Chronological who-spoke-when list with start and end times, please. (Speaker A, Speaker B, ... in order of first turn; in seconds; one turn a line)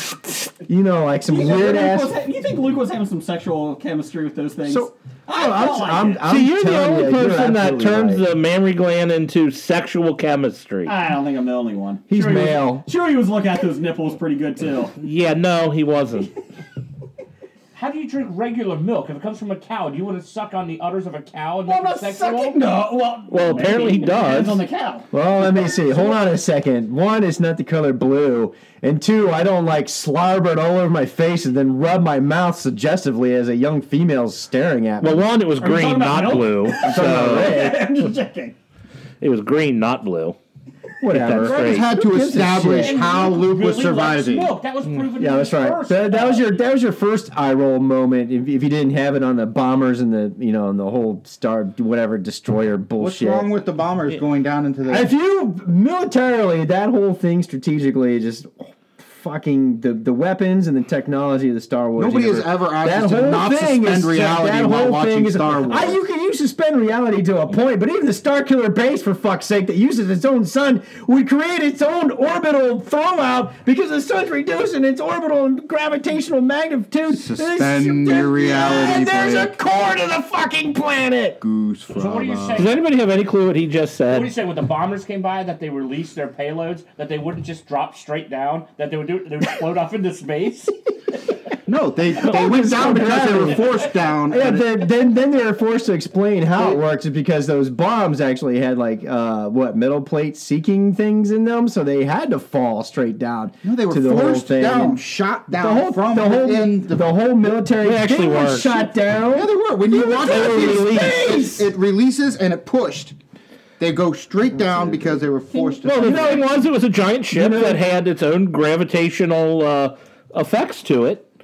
Speaker A: 0.7-2.1
Speaker B: 1.3-6.2
Speaker A: 4.6-8.2
Speaker C: 6.3-10.9
Speaker B: 10.8-14.9
Speaker A: 12.1-12.8
Speaker C: 15.0-16.3
Speaker D: 17.7-22.6
Speaker B: 21.6-26.2
Speaker C: 23.3-24.6
Speaker A: 25.1-35.3
Speaker C: 35.0-37.7
Speaker B: 35.6-38.5
Speaker A: 36.8-37.9
Speaker C: 39.2-40.4
Speaker A: 41.0-43.0
Speaker C: 41.0-41.9
Speaker E: 41.4-44.6
Speaker D: 42.8-46.2
Speaker B: 43.1-43.4
Speaker A: 45.2-53.5
Speaker B: 46.1-46.4
Speaker E: 53.0-55.1
Speaker A: 54.9-81.4
Speaker E: 62.0-66.0
Speaker E: 77.1-79.5
Speaker E: 81.4-82.7
Speaker D: 81.9-82.8
Speaker C: 82.5-84.3
Speaker D: 84.1-90.7
Speaker E: 91.7-94.7
Speaker A: 92.2-111.7
Speaker C: 92.5-93.3
Speaker E: 103.6-107.1
Speaker C: 107.8-108.9
Speaker E: 109.3-113.1
Speaker C: 110.0-111.3
Speaker E: 113.8-116.6
Speaker A: 114.5-115.6
Speaker C: 115.8-121.3
Speaker A: 117.3-117.8